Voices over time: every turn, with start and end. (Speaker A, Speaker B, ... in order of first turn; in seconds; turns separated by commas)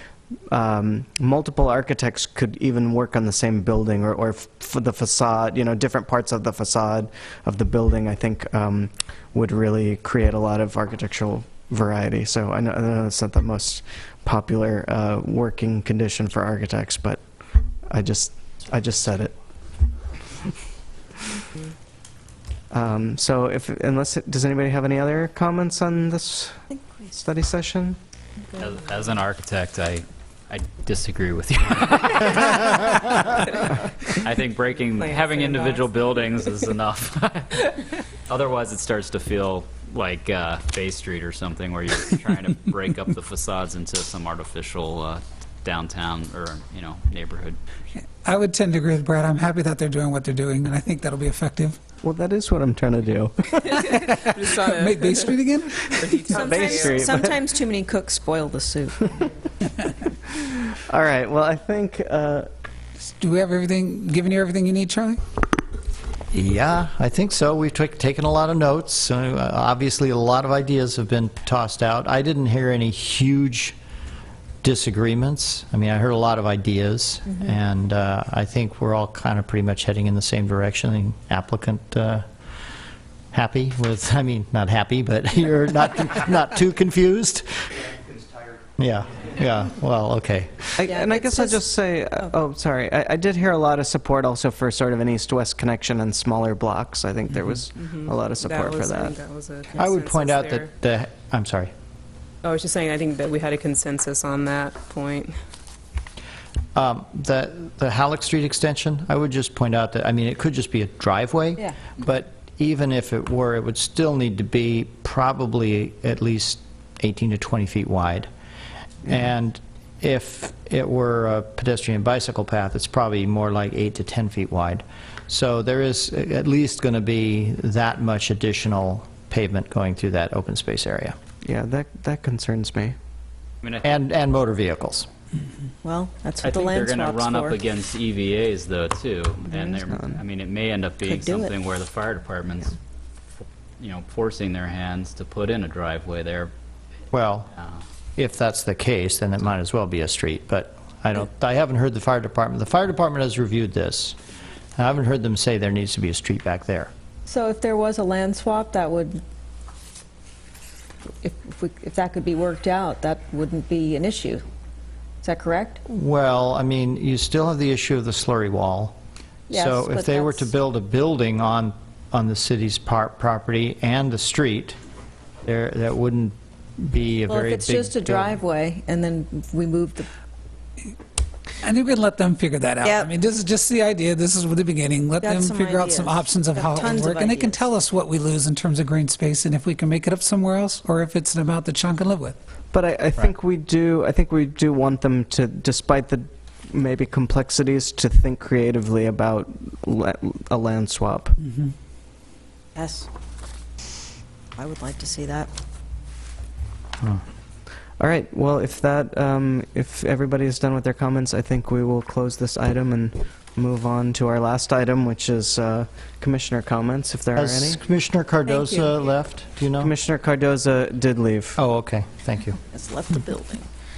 Speaker A: 0.5-17.2, Speaker A: 17.9-19.3, Speaker A: 22.7-28.0, Speaker B: 28.6-47.6, Speaker C: 35.0-35.9, Speaker D: 48.2-51.8, Speaker A: 52.0-53.9, Speaker C: 53.7-55.4, Speaker D: 53.9-56.3, Speaker C: 55.9-57.1, Speaker E: 56.3-59.3, Speaker A: 56.3-57.4, Speaker A: 60.7-62.5, Speaker D: 63.1-65.2, Speaker F: 66.3-73.8, Speaker F: 74.6-82.2, Speaker F: 83.3-87.8, Speaker F: 88.8-90.8, Speaker A: 90.8-99.2, Speaker E: 90.8-91.6, Speaker C: 97.8-100.7, Speaker F: 99.8-101.7, Speaker C: 102.4-105.3, Speaker F: 106.8-118.3, Speaker F: 119.0-131.2, Speaker A: 131.4-133.0, Speaker F: 133.8-135.1, Speaker E: 135.8-137.6, Speaker B: 136.4-142.8, Speaker A: 139.9-140.2, Speaker E: 141.0-141.5, Speaker B: 143.8-146.5, Speaker F: 147.1-147.5, Speaker F: 148.2-154.2, Speaker F: 154.8-156.9, Speaker E: 157.3-159.2, Speaker E: 161.2-164.4, Speaker E: 165.2-165.8, Speaker F: 165.9-169.0, Speaker E: 169.5-170.4, Speaker F: 169.5-174.8, Speaker F: 175.4-178.4, Speaker E: 177.3-180.1, Speaker D: 181.6-192.4, Speaker E: 182.8-183.1, Speaker E: 185.2-187.7, Speaker A: 192.7-201.4, Speaker D: 201.4-201.7, Speaker E: 202.8-203.1, Speaker E: 204.6-205.5, Speaker A: 208.0-217.8, Speaker F: 217.3-219.9, Speaker E: 218.5-219.0, Speaker A: 219.8-221.6, Speaker F: 221.6-222.6, Speaker E: 222.6-223.7